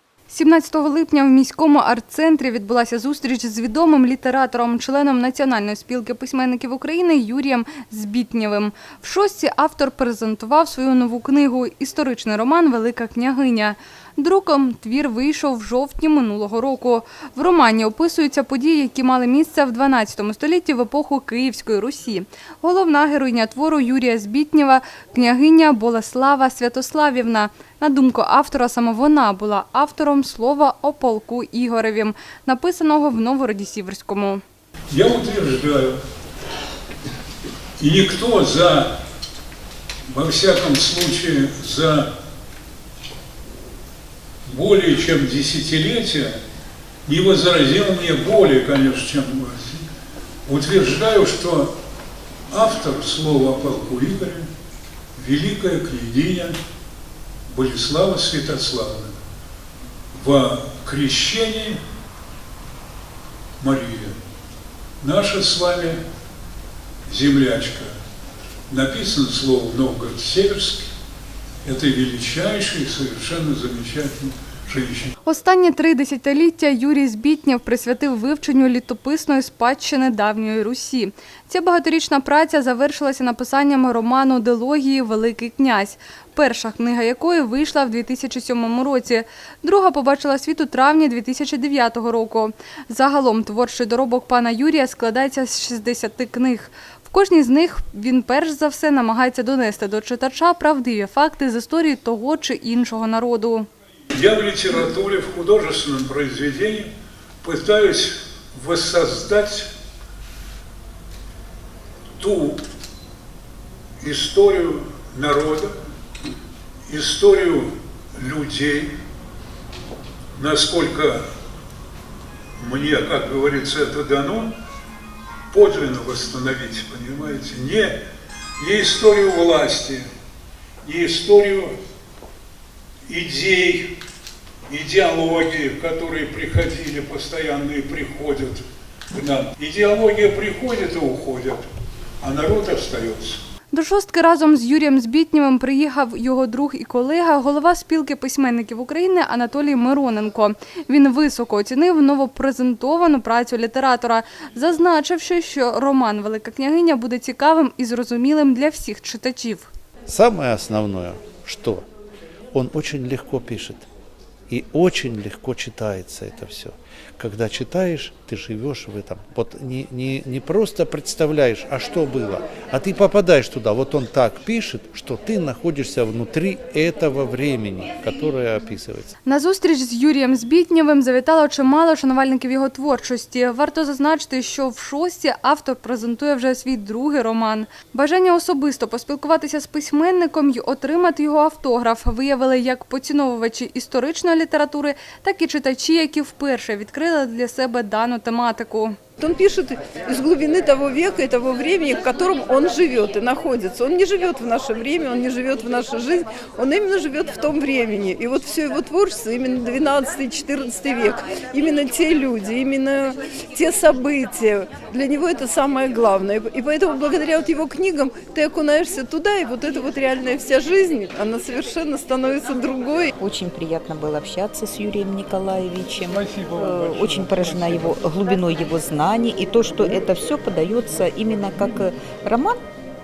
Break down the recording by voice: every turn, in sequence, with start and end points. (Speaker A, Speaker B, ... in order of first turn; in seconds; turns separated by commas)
Speaker A: 0.3-34.4, Speaker B: 34.9-36.0, Speaker B: 37.8-39.0, Speaker B: 40.1-42.1, Speaker B: 44.5-46.4, Speaker B: 47.0-49.9, Speaker B: 50.5-51.7, Speaker B: 52.5-54.5, Speaker B: 55.1-56.6, Speaker B: 57.5-59.2, Speaker B: 60.1-61.8, Speaker B: 63.6-64.2, Speaker B: 65.0-66.0, Speaker B: 67.1-67.9, Speaker B: 68.7-70.9, Speaker B: 71.6-75.1, Speaker A: 75.3-103.7, Speaker B: 104.1-106.9, Speaker B: 107.4-109.7, Speaker B: 112.2-112.6, Speaker B: 114.0-115.8, Speaker B: 116.9-118.9, Speaker B: 120.3-121.2, Speaker B: 122.6-124.5, Speaker B: 125.5-128.0, Speaker B: 128.6-130.1, Speaker B: 130.8-131.8, Speaker B: 133.1-133.9, Speaker B: 134.7-141.7, Speaker B: 142.2-143.4, Speaker A: 143.7-159.7, Speaker C: 160.1-161.9, Speaker C: 162.5-163.8, Speaker C: 164.5-179.1, Speaker A: 179.3-199.0, Speaker D: 199.2-223.1, Speaker E: 223.2-232.6, Speaker B: 226.0-228.1